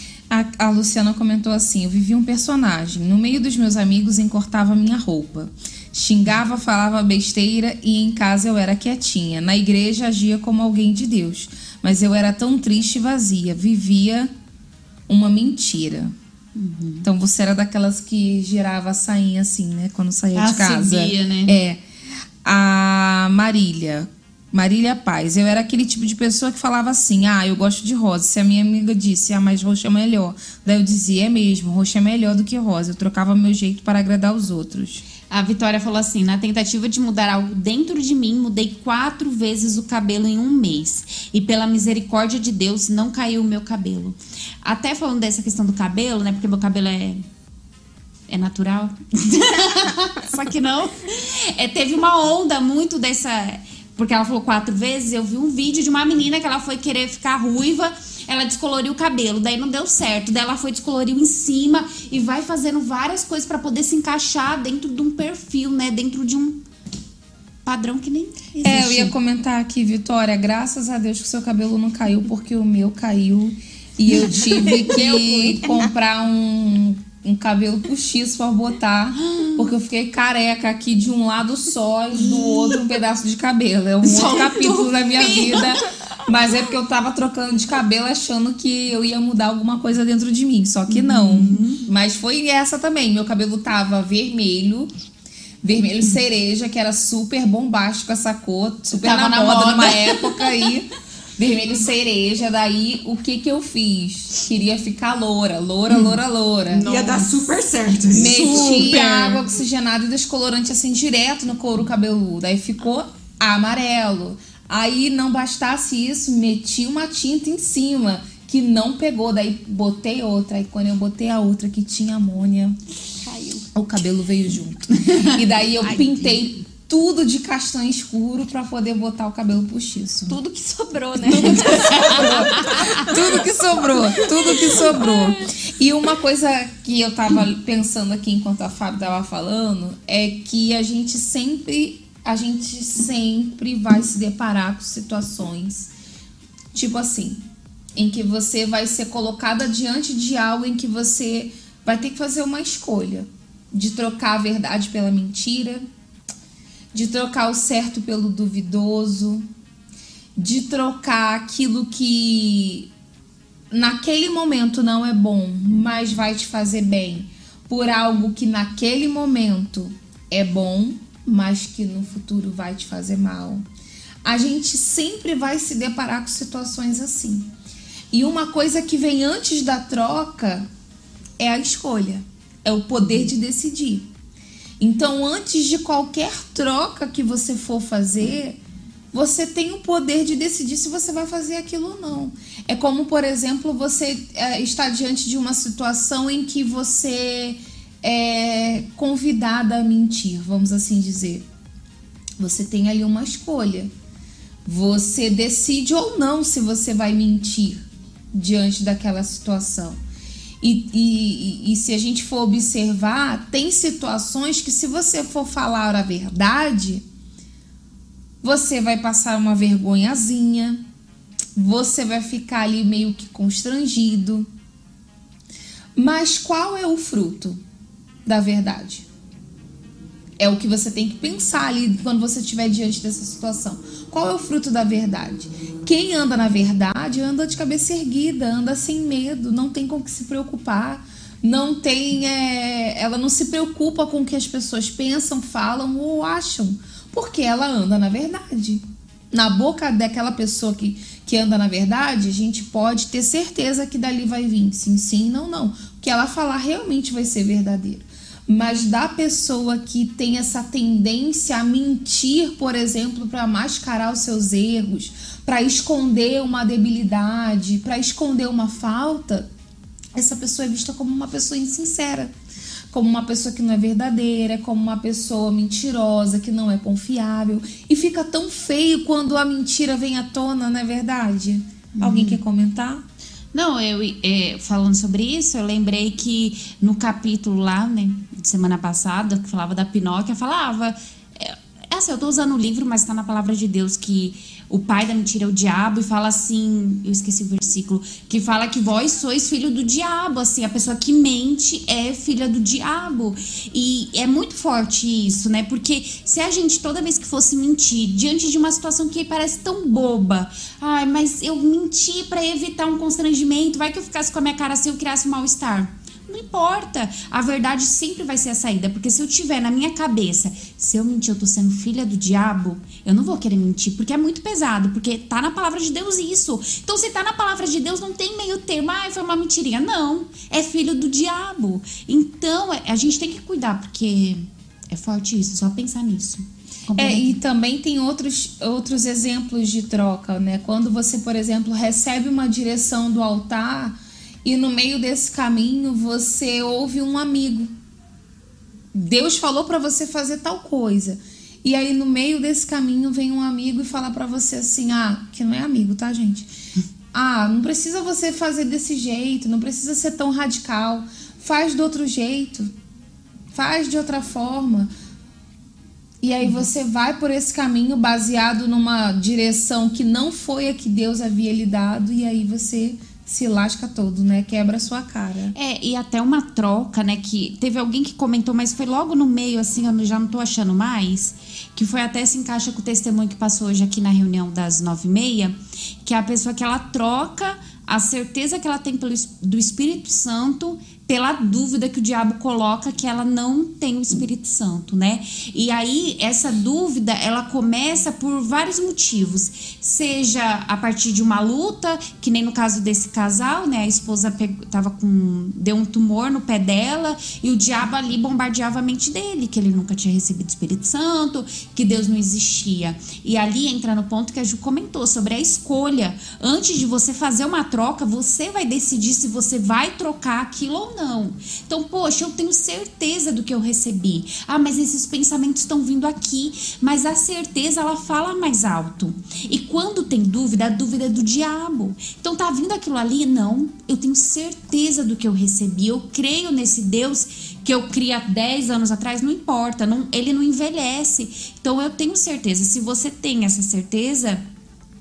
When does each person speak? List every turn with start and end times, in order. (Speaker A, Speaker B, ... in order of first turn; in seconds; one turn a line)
Speaker A: 0.3-14.3
Speaker A: 15.1-16.1
Speaker B: 16.6-17.1
Speaker A: 17.0-21.8
Speaker B: 20.3-21.6
Speaker A: 22.4-35.0
Speaker B: 35.3-47.2
Speaker B: 48.3-66.6
Speaker B: 67.6-69.1
Speaker A: 68.6-94.9
Speaker C: 74.3-75.9
Speaker B: 79.2-79.6
Speaker B: 84.0-85.8
Speaker B: 90.9-91.8
Speaker A: 95.6-106.9
Speaker B: 98.9-100.7
Speaker B: 105.9-106.2
Speaker B: 106.7-107.3
Speaker D: 106.8-109.4
Speaker B: 108.1-109.3
Speaker A: 108.1-122.8
Speaker C: 123.1-123.7
Speaker A: 123.7-130.4
Speaker B: 125.0-126.2
Speaker C: 130.3-135.3
Speaker A: 131.2-145.9
Speaker B: 131.4-133.0
Speaker A: 146.7-147.4
Speaker A: 147.9-155.8
Speaker A: 156.9-159.4
Speaker A: 160.3-162.9
Speaker A: 163.7-173.6
Speaker A: 174.2-177.5
Speaker A: 178.1-180.7
Speaker A: 181.4-184.1
Speaker A: 184.8-188.6
Speaker A: 189.1-201.4
Speaker A: 202.4-203.9
Speaker A: 204.6-210.0
Speaker A: 210.6-217.0
Speaker A: 218.4-220.8
Speaker A: 221.5-224.5
Speaker A: 225.9-227.6
Speaker A: 228.2-229.1
Speaker A: 230.4-269.5
Speaker A: 270.1-272.3
Speaker A: 272.9-283.0
Speaker B: 281.9-282.4
Speaker B: 283.5-337.4
Speaker A: 336.9-347.7
Speaker A: 348.9-356.5
Speaker A: 357.1-362.7
Speaker A: 363.5-364.9
Speaker A: 366.2-375.5
Speaker B: 375.5-444.4